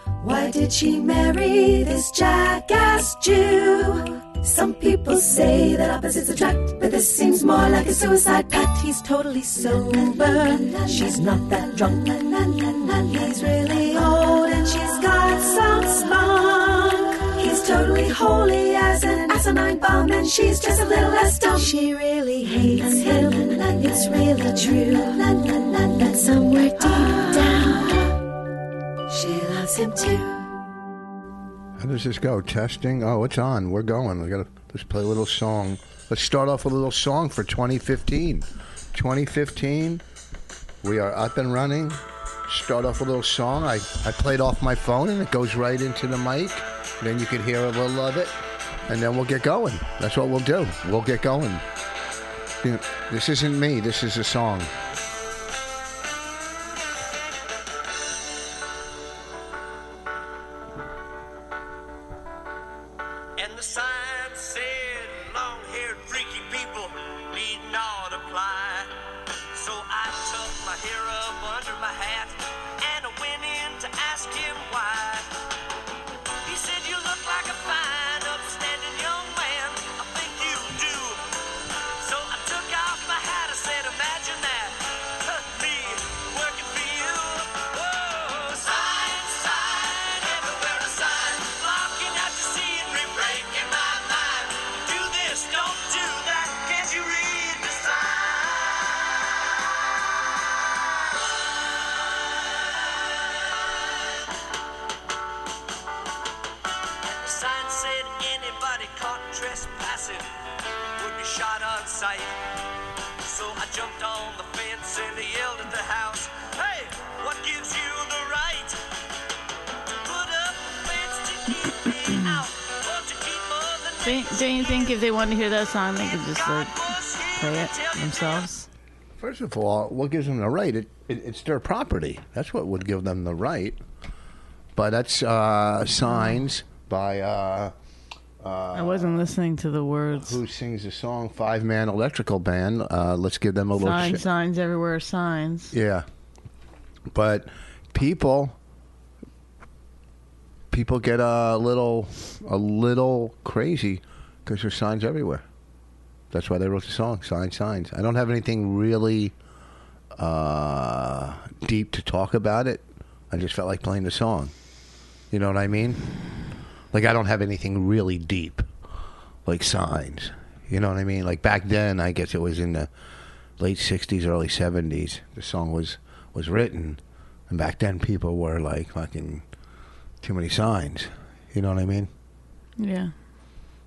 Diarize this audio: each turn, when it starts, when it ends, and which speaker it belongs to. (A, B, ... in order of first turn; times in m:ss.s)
0:00.2-0:28.2 A
0:29.1-0:30.5 A
0:31.8-0:40.0 B
0:40.8-0:51.6 B
0:52.6-0:54.7 B
1:03.4-1:08.9 C
1:09.5-1:15.3 C
1:16.4-1:39.0 C
1:47.0-1:52.4 C
1:53.2-1:58.8 C
1:59.9-2:05.1 C
2:04.0-2:06.8 D
2:06.0-2:08.5 C
2:07.4-2:08.7 D
2:09.2-2:13.8 B
2:14.8-2:17.7 B
2:18.4-2:19.3 B
2:18.7-2:20.4 D
2:20.1-2:24.2 B
2:23.8-2:25.7 D
2:25.7-2:26.1 B
2:27.1-2:28.6 B
2:30.7-2:35.4 B
2:36.3-2:39.3 B
2:40.2-2:44.5 B
2:45.3-2:46.0 B
2:46.9-2:48.7 B
2:49.4-2:52.9 B
2:53.6-2:59.4 B
3:00.2-3:02.1 B
3:02.8-3:03.1 D